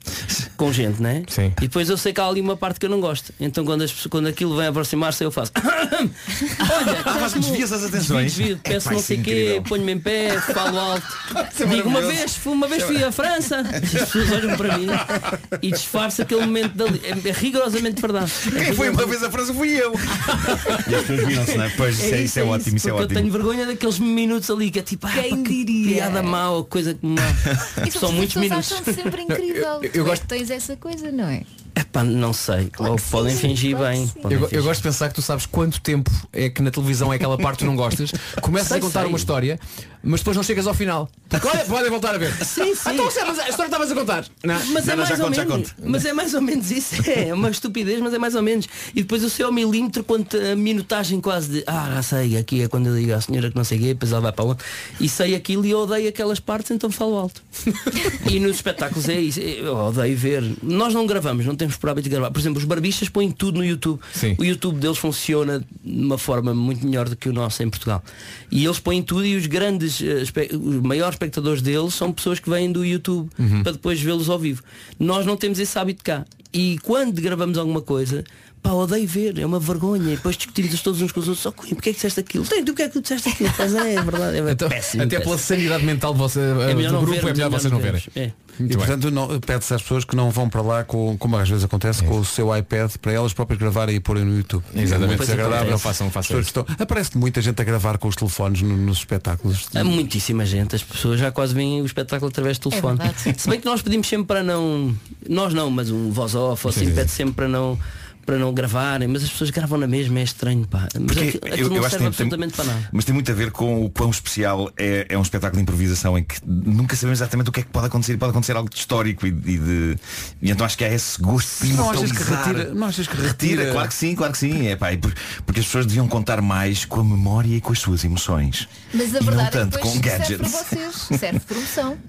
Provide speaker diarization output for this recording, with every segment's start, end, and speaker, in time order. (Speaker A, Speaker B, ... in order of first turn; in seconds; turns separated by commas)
Speaker A: 0.6-19.1, Speaker B: 1.3-1.6, Speaker C: 6.6-9.7, Speaker C: 10.3-10.6, Speaker C: 11.3-13.0, Speaker C: 18.4-23.3, Speaker A: 20.4-21.0, Speaker A: 21.6-29.0, Speaker D: 25.1-26.4, Speaker D: 27.8-31.5, Speaker B: 29.3-30.2, Speaker A: 31.8-34.8, Speaker D: 32.8-34.3, Speaker B: 34.3-44.8, Speaker A: 38.6-39.3, Speaker A: 42.4-43.1, Speaker A: 44.5-57.4, Speaker C: 44.8-45.8, Speaker A: 58.0-85.4, Speaker B: 64.1-64.4, Speaker B: 73.4-73.7, Speaker B: 84.5-88.0, Speaker A: 86.6-88.3, Speaker E: 88.6-100.0, Speaker B: 88.7-88.9, Speaker B: 94.7-96.5, Speaker A: 94.8-95.9, Speaker A: 99.7-112.9, Speaker D: 102.7-103.3, Speaker B: 106.7-107.1, Speaker C: 111.0-131.2, Speaker E: 121.6-123.9, Speaker D: 128.9-132.0